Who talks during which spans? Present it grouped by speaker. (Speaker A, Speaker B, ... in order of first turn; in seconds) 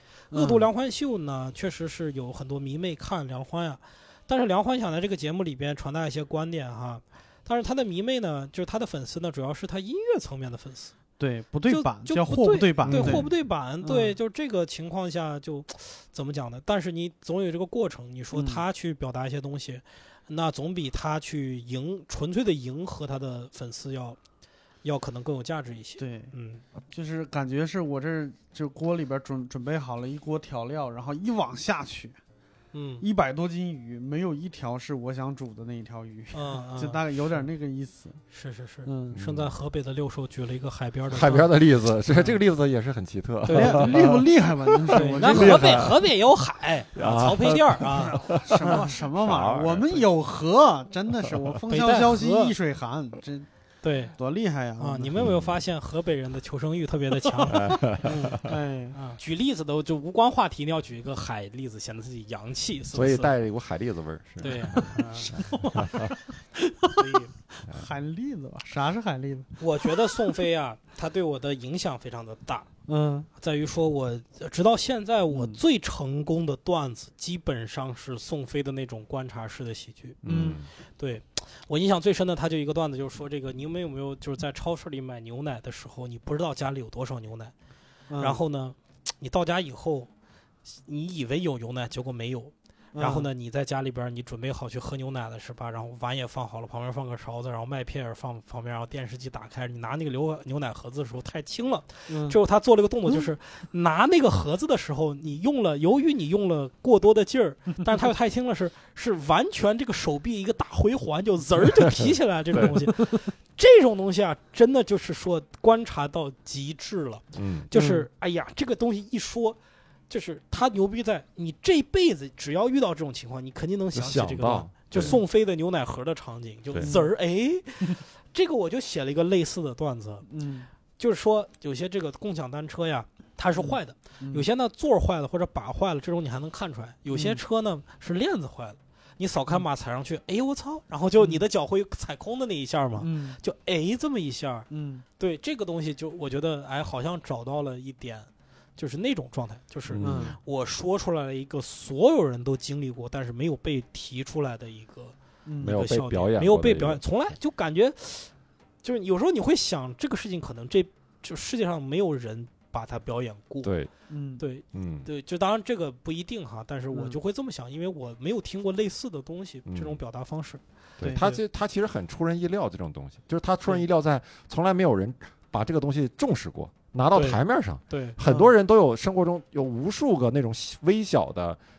Speaker A: 0.3-0.7, 11.2-14.1, 18.3-18.6, 26.0-32.2, 33.0-38.2, 38.8-39.2, 43.5-45.8, 47.9-53.5, 54.1-55.2, 57.5-57.8, 58.3-59.0, 65.2-67.0, 67.6-70.2, 72.9-73.3, 75.3-75.6, 80.2-80.6, 88.1-88.4, 92.9-93.3, 102.1-102.4, 117.7-118.1, 125.0-125.2, 126.8-127.1, 130.3-130.7, 133.6-134.5, 137.1-137.4, 141.2-141.4, 143.0-143.4, 144.7-145.0, 150.0-150.4, 155.4-155.8, 164.1-164.4, 178.2-178.5
Speaker B: 0.3-10.9, 11.7-24.2, 24.8-26.6, 32.7-33.0, 36.3-37.0, 38.3-41.5, 43.5-44.1, 44.9-48.8, 51.7-52.5, 53.8-54.1, 54.8-63.3, 64.4-66.1, 66.8-67.3, 69.6-72.7, 73.4-80.2, 80.8-87.5, 88.2-90.1, 90.6-119.6, 120.1-130.3, 131.0-144.7, 145.2-163.7, 164.4-171.4, 177.1-178.2
Speaker C: 12.8-13.3, 39.1-39.5, 41.1-46.0, 46.9-50.0, 55.2-55.6, 57.5-58.4, 62.9-66.1, 80.2-80.7, 117.3-117.7, 123.9-125.2, 149.9-150.3, 155.6-157.0, 163.6-163.9, 164.7-165.1, 169.7-170.0, 171.0-181.6